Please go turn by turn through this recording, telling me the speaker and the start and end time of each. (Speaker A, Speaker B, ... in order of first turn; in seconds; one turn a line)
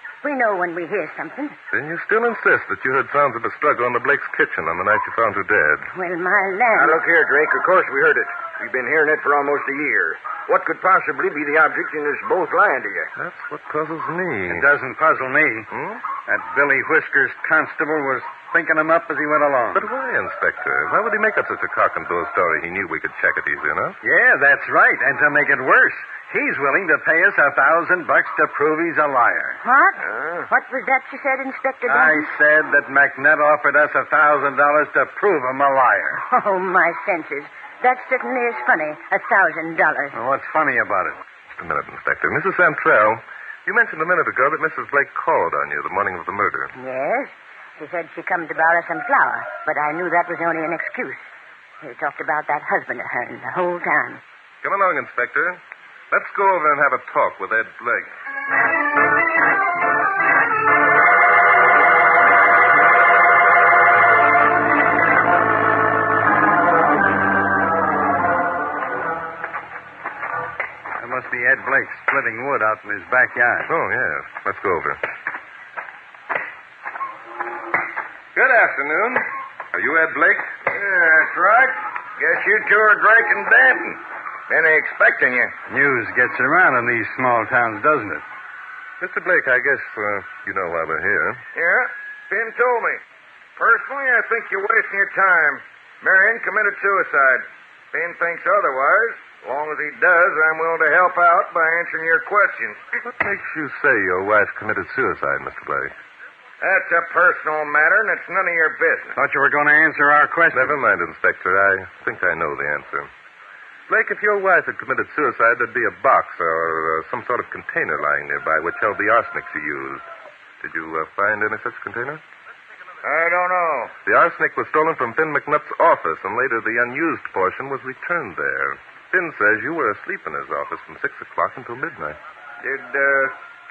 Speaker A: 0.2-1.6
Speaker B: 1.7-5.9
Speaker A: 5.9-7.0
Speaker C: 6.7-13.1
Speaker B: 13.2-14.7
Speaker D: 14.5-15.7
Speaker B: 15.7-16.1
Speaker D: 16.3-19.8
Speaker B: 19.7-24.0
Speaker D: 24.0-29.6
Speaker A: 29.6-32.3
Speaker D: 31.9-36.2
Speaker A: 36.2-40.2
Speaker D: 40.1-41.2
Speaker B: 41.5-46.7
Speaker A: 46.8-51.2
Speaker A: 51.8-54.2
Speaker B: 54.6-55.6
Speaker B: 56.1-58.1
Speaker D: 71.0-73.7
Speaker B: 73.7-75.0
Speaker B: 78.3-80.5
Speaker C: 80.7-85.5
Speaker D: 85.7-88.2
Speaker B: 89.0-91.4
Speaker C: 91.5-93.0
Speaker C: 93.6-102.8
Speaker B: 103.0-105.9
Speaker C: 106.6-109.2
Speaker D: 109.2-110.8
Speaker B: 110.5-113.1
Speaker B: 113.9-120.0
Speaker B: 120.6-122.2
Speaker C: 123.0-124.0
Speaker B: 124.0-132.2
Speaker C: 132.6-133.3